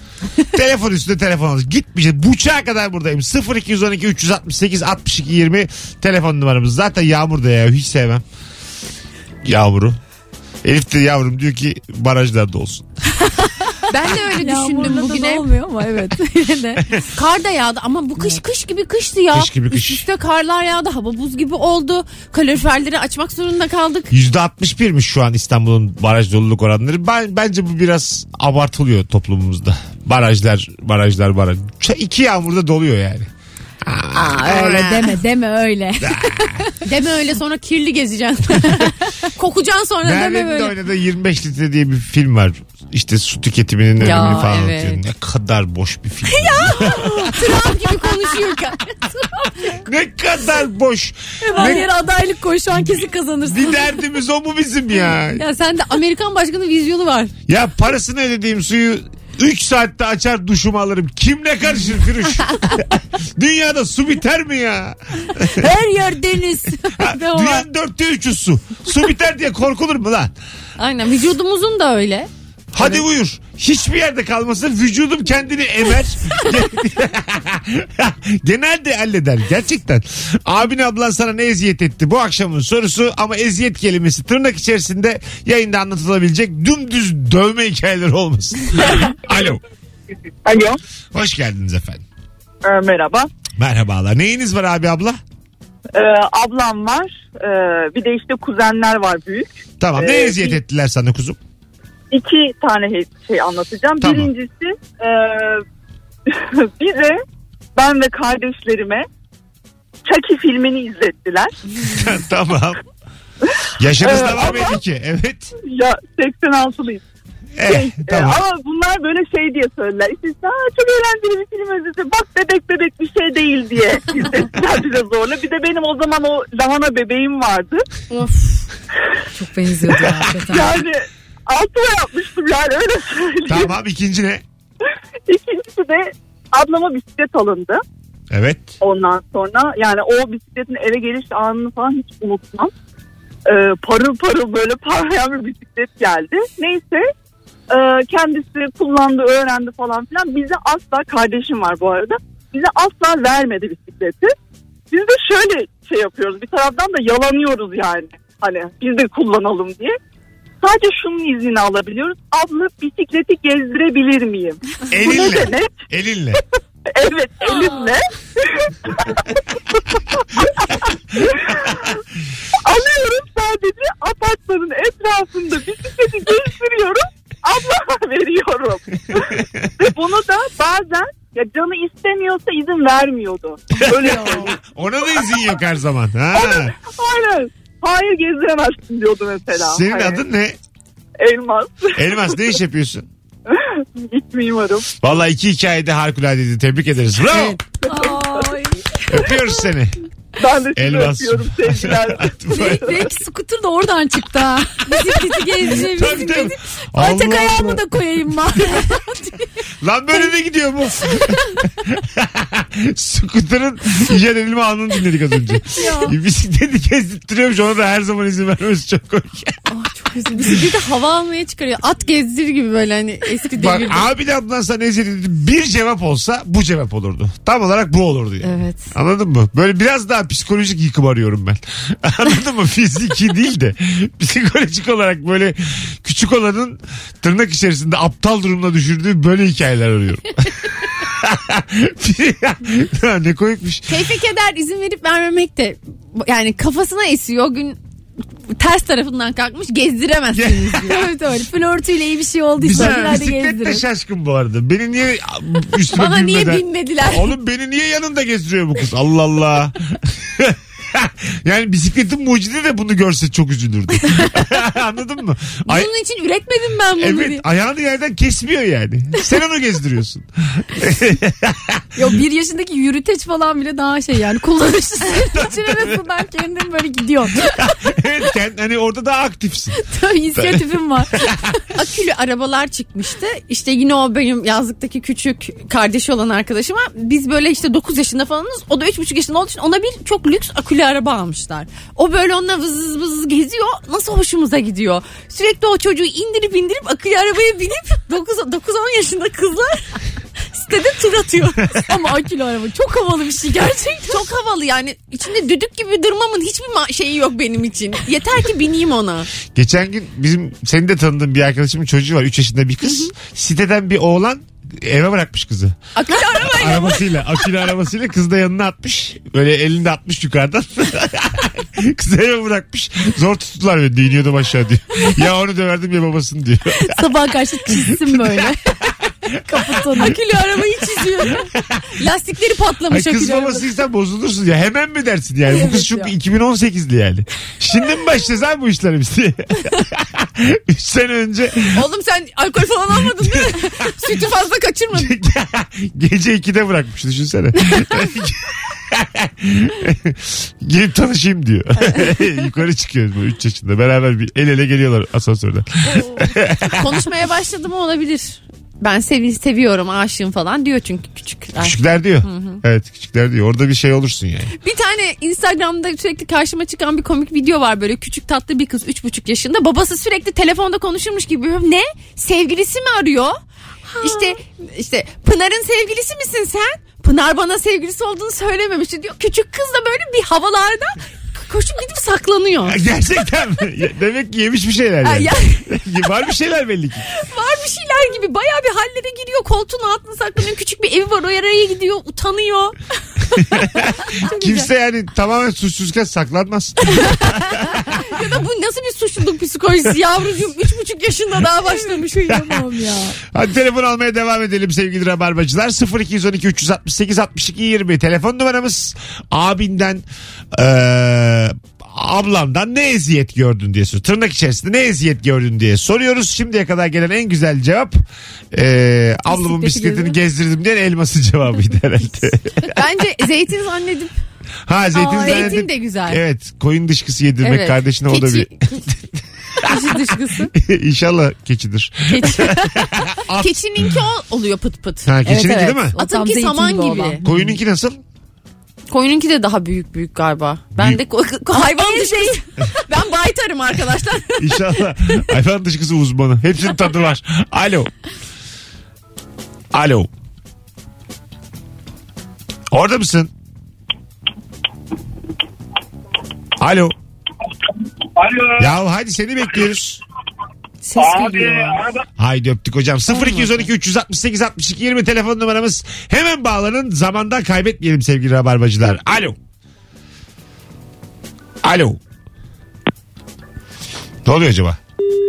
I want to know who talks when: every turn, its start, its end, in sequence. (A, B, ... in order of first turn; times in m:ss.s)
0:00.5-0:08.2 A
0:09.4-0:10.0 A
0:10.6-0:12.9 A
0:13.2-0:16.9 B
0:13.9-0:15.5 C
0:17.1-0:24.1 C
0:19.3-0:20.1 A
0:24.1-0:33.3 A
0:33.8-0:35.1 A
0:34.1-0:36.7 B
0:36.0-0:36.6 A
0:36.8-0:40.8 C
0:38.6-0:38.9 B
0:40.0-0:47.5 A
0:44.0-0:45.0 C
0:46.3-0:48.9 C
0:49.8-0:51.9 A
0:51.4-0:53.8 B
0:53.5-0:55.4 A
0:55.3-0:57.3 C
0:57.5-1:05.7 A
1:05.5-1:07.6 B
1:07.0-1:10.3 A
1:10.8-1:13.0 C
1:12.7-1:29.6 A
1:30.4-1:30.8 D
1:31.1-1:32.0 A
1:32.6-1:33.3 D
1:33.6-1:35.2 A
1:35.9-1:40.6 D
1:39.8-1:41.4 A
1:42.1-1:45.6 D
1:44.0-1:44.3 A
1:46.3-1:47.2 D
1:47.8-1:49.0 D
1:50.0-1:51.5 D
1:51.8-1:52.8 A
1:53.8-1:55.5 A
1:54.0-1:54.8 D
1:55.7-1:57.0 D
1:57.6-1:58.4 A
1:57.6-2:07.8 D
2:08.1-2:08.5 C
2:09.3-2:10.8 B
2:09.9-2:13.8 D
2:13.5-2:14.4 A
2:15.3-2:17.8 D
2:18.3-2:18.8 A
2:18.8-2:22.7 D
2:23.5-2:27.1 D
2:27.7-2:34.3 D
2:34.9-2:40.0 D
2:40.6-2:45.8 D
2:44.9-2:46.4 A
2:47.0-2:49.3 D
2:50.4-2:52.0 D
2:52.6-3:04.6 D
2:59.1-2:59.7 A
3:03.9-3:06.7 A
3:05.1-3:05.5 D
3:06.3-3:10.2 D
3:09.6-3:10.6 A
3:11.2-3:12.5 D
3:12.0-3:13.1 A
3:13.5-3:14.9 D
3:15.0-3:17.6 A
3:17.9-3:18.4 D
3:17.9-3:19.0 B
3:19.1-3:19.9 A
3:20.4-3:23.0 D
3:20.8-3:23.1 A
3:22.5-3:29.5 B
3:24.9-3:26.5 C
3:25.7-3:27.9 A
3:29.8-3:39.6 A
3:35.8-3:36.1 B
3:39.7-3:44.1 C
3:43.5-4:04.1 A
3:48.4-3:48.9 C
4:03.9-4:07.8 C
4:08.6-4:11.0 C
4:10.3-4:11.0 A
4:10.8-4:13.8 B
4:12.6-4:25.9 A
4:12.7-4:13.2 C
4:15.9-4:17.3 C
4:25.7-4:27.4 C
4:27.0-4:31.8 A
4:32.0-4:37.7 B
4:35.3-4:36.0 A
4:37.4-4:39.8 A
4:39.8-4:41.6 B
4:40.4-4:41.3 A
4:41.7-4:59.9 C
5:00.5-5:01.8 C
5:01.8-5:04.2 B
5:03.8-5:09.3 C
5:09.4-5:15.8 A
5:12.8-5:13.1 C
5:15.9-5:17.3 C
5:16.3-5:27.2 A
5:26.8-5:28.7 B
5:27.7-5:28.7 A
5:29.4-5:30.2 B
5:30.0-5:33.6 C
5:32.9-5:41.8 A
5:35.5-5:36.1 B
5:41.7-5:45.1 C
5:43.1-5:43.7 A
5:44.9-5:57.1 A
5:56.0-6:02.6 C
6:01.6-6:04.5 A
6:04.6-6:13.4 C
6:13.9-6:22.8 C
6:14.0-6:14.4 B
6:22.7-6:27.0 A
6:25.0-6:25.6 C
6:27.1-6:32.8 C
6:33.3-6:34.6 C
6:33.4-6:37.5 A
6:36.8-6:42.5 C
6:41.6-6:43.2 B
6:42.3-6:42.6 A
6:43.3-6:58.0 A
6:58.5-7:02.8 A
6:59.3-7:00.2 B
7:02.7-7:04.2 C
7:04.7-7:14.0 A
7:04.9-7:06.2 C
7:05.0-7:05.6 B
7:07.4-7:08.9 C
7:09.6-7:10.5 C
7:12.1-7:15.3 C
7:15.0-7:16.0 A
7:15.2-7:17.2 B
7:15.9-7:17.2 C
7:17.2-7:18.0 A
7:18.9-7:24.7 C
7:21.5-7:22.4 B
7:24.4-7:27.9 A
7:29.7-7:30.1 A
7:32.7-7:33.3 A
7:36.6-7:36.9 A
7:38.6-7:40.0 A
7:40.8-7:41.8 C
7:42.2-7:49.4 A
7:43.2-7:43.5 C
7:51.6-7:52.0 A
7:54.2-7:54.8 A